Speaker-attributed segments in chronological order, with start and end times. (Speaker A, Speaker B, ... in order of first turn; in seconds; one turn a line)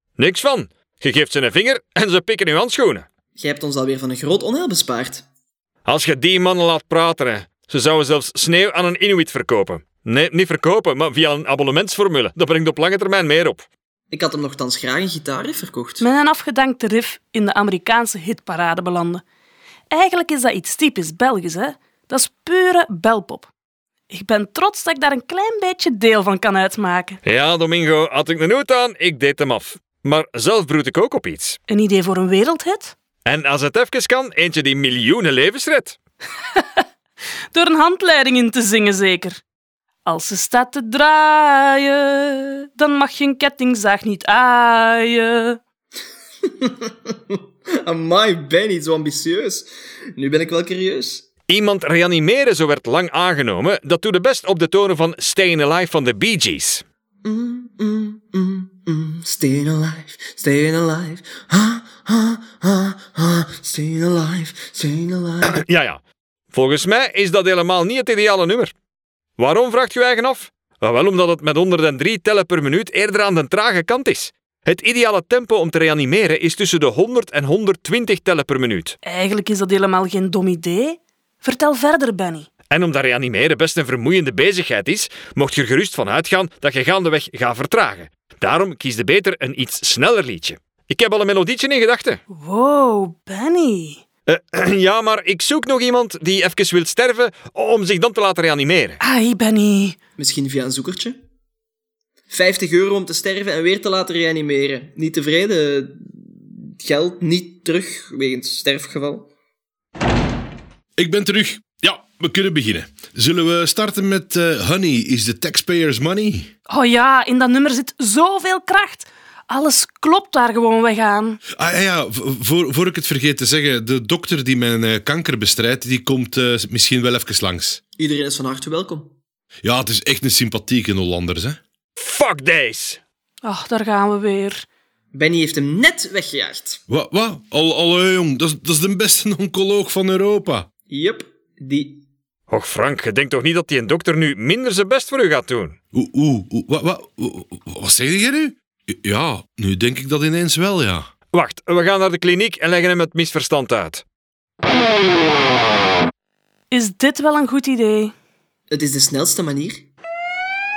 Speaker A: 0.2-3.1
Speaker B: 3.4-5.2
Speaker A: 5.8-13.7
Speaker B: 14.1-16.0
Speaker C: 16.0-19.2
Speaker C: 19.9-23.5
Speaker C: 24.1-27.2
Speaker A: 27.2-31.6
Speaker C: 31.7-32.9
Speaker A: 33.2-36.0
Speaker C: 36.5-36.8
Speaker C: 37.5-39.4
Speaker C: 40.0-45.6
Speaker B: 46.4-51.2
Speaker A: 51.5-56.8
Speaker B: 57.2-65.6
Speaker A: 65.4-66.0
Speaker A: 66.5-68.7
Speaker A: 69.4-79.0
Speaker C: 79.0-82.5
Speaker A: 82.7-92.2
Speaker C: 92.3-94.0
Speaker A: 94.3-99.0
Speaker C: 99.0-100.0
Speaker B: 100.2-101.2
Speaker B: 102.3-109.3
Speaker D: 111.0-116.5
Speaker C: 116.7-121.4
Speaker D: 121.5-127.8
Speaker B: 128.0-129.1
Speaker D: 129.6-131.6
Speaker A: 132.0-133.0
Speaker C: 133.4-134.7
Speaker B: 135.1-136.8
Speaker D: 136.9-140.7
Speaker B: 140.9-142.0
Speaker A: 142.5-145.8
Speaker D: 145.9-151.1
Speaker A: 151.3-154.0
Speaker C: 156.7-158.1
Speaker B: 158.7-159.8